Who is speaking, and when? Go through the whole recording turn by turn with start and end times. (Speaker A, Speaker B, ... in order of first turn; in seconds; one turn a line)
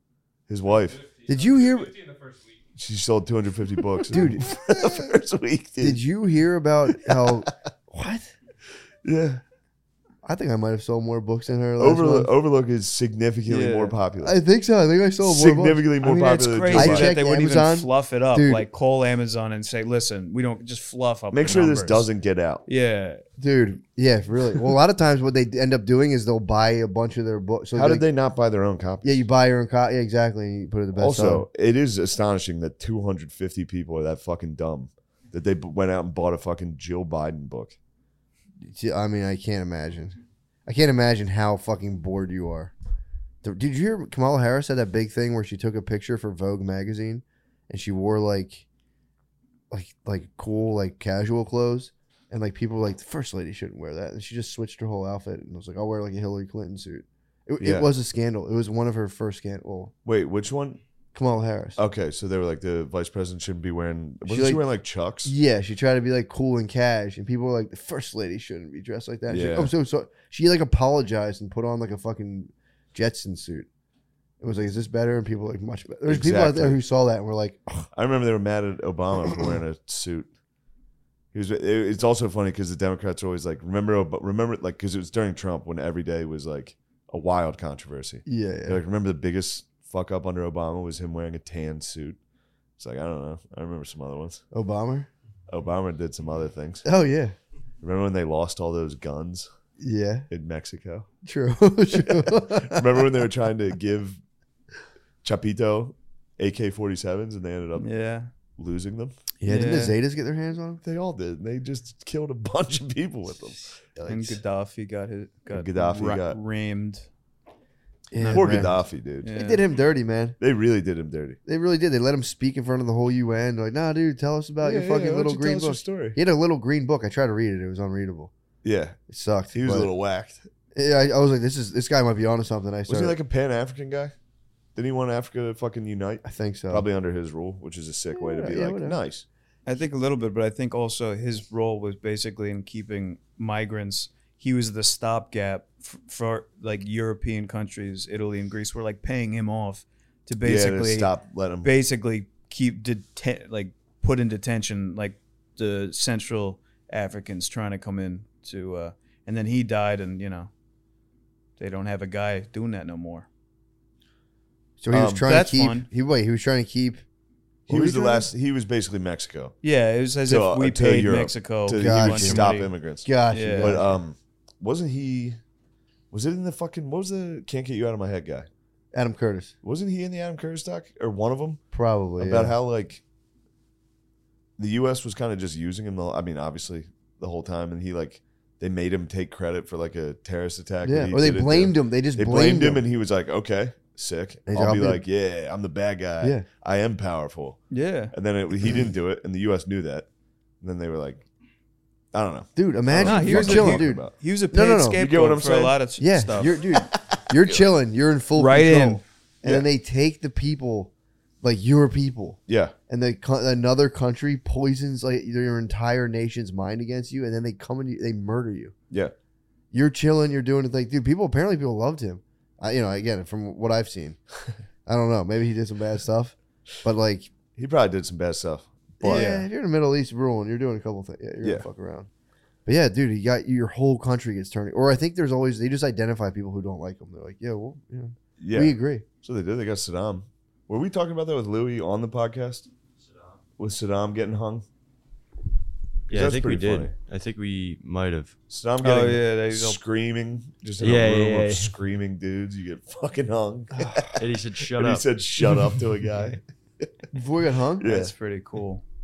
Speaker A: 0.5-1.1
Speaker B: 1.2-2.1
Speaker A: 2.7-6.0
Speaker B: 4.1-4.6
Speaker B: 5.8-8.3
Speaker A: 7.0-7.5
Speaker A: 9.0-9.4
Speaker B: 10.2-12.3
Speaker A: 11.8-14.4
Speaker C: 13.5-13.9
Speaker B: 14.2-16.0
Speaker A: 15.2-17.1
Speaker C: 16.0-22.1
Speaker B: 16.7-18.6
Speaker A: 21.3-22.6
Speaker C: 22.6-23.2
Speaker B: 23.4-28.1
Speaker A: 27.7-29.2
Speaker B: 29.0-31.4
Speaker A: 30.9-37.8
Speaker B: 38.6-42.7
Speaker B: 43.4-48.6
Speaker B: 49.7-59.9
Speaker A: 57.6-57.9
Speaker A: 60.0-60.8
Speaker B: 61.1-61.8
Speaker A: 61.8-65.3
Speaker B: 64.2-64.6
Speaker B: 65.2-73.7
Speaker A: 69.3-69.7
Speaker B: 74.4-77.9
Speaker A: 76.1-76.8
Speaker A: 77.9-80.3
Speaker A: 81.3-92.2
Speaker B: 88.2-88.8
Speaker A: 92.8-94.4
Speaker B: 94.5-95.1
Speaker A: 95.5-96.8
Speaker B: 96.8-97.3
Speaker A: 97.8-99.5
Speaker B: 99.8-100.3
Speaker A: 100.3-101.1
Speaker B: 101.2-103.1
Speaker A: 102.2-104.2
Speaker A: 105.2-107.9
Speaker C: 107.8-108.3
Speaker A: 108.6-109.1
Speaker B: 109.4-110.8
Speaker C: 109.5-110.0
Speaker A: 110.8-113.7
Speaker B: 114.0-114.4
Speaker C: 114.1-117.0
Speaker A: 115.5-116.4
Speaker B: 118.1-118.7
Speaker C: 118.1-119.6
Speaker A: 118.3-119.3
Speaker B: 119.3-120.3
Speaker A: 120.4-121.4
Speaker B: 121.5-128.3
Speaker A: 124.6-126.2
Speaker A: 128.6-129.0
Speaker B: 129.1-129.9
Speaker A: 129.5-130.4
Speaker B: 130.7-133.2
Speaker A: 132.9-134.1
Speaker A: 134.7-139.2
Speaker B: 136.2-136.8
Speaker B: 138.1-139.0
Speaker C: 139.7-151.1
Speaker A: 150.4-151.7
Speaker C: 151.6-160.5
Speaker C: 161.6-163.3
Speaker B: 164.8-167.0
Speaker A: 164.9-165.2
Speaker C: 165.2-165.8
Speaker B: 167.7-168.3
Speaker A: 167.7-169.5
Speaker C: 169.6-172.7
Speaker A: 170.2-175.4
Speaker B: 171.8-172.5
Speaker B: 173.0-173.9
Speaker C: 173.3-173.8
Speaker A: 176.1-178.5
Speaker B: 178.9-179.5
Speaker A: 179.6-181.6
Speaker B: 181.7-182.5
Speaker A: 182.2-183.0
Speaker A: 184.6-197.6
Speaker B: 190.8-192.8
Speaker B: 194.5-195.0
Speaker C: 197.7-198.1
Speaker A: 198.1-200.1
Speaker A: 200.6-201.2
Speaker A: 202.1-204.1
Speaker B: 202.6-205.0
Speaker C: 203.0-206.7
Speaker A: 204.9-205.8
Speaker B: 206.0-218.7
Speaker A: 206.8-207.5
Speaker C: 208.3-209.0
Speaker A: 212.5-212.7
Speaker B: 219.7-224.2
Speaker B: 224.8-227.3
Speaker A: 227.5-229.4
Speaker B: 229.0-232.1
Speaker C: 229.1-229.4
Speaker A: 231.4-231.7
Speaker B: 232.7-239.0
Speaker A: 238.4-242.7
Speaker A: 243.6-244.6
Speaker A: 246.1-246.9
Speaker D: 246.1-248.3
Speaker A: 248.5-254.2
Speaker C: 248.8-249.8
Speaker D: 250.8-251.7
Speaker B: 253.8-254.1
Speaker D: 254.2-255.1
Speaker A: 254.7-256.9
Speaker B: 257.1-257.9
Speaker A: 257.8-258.1
Speaker C: 257.8-258.8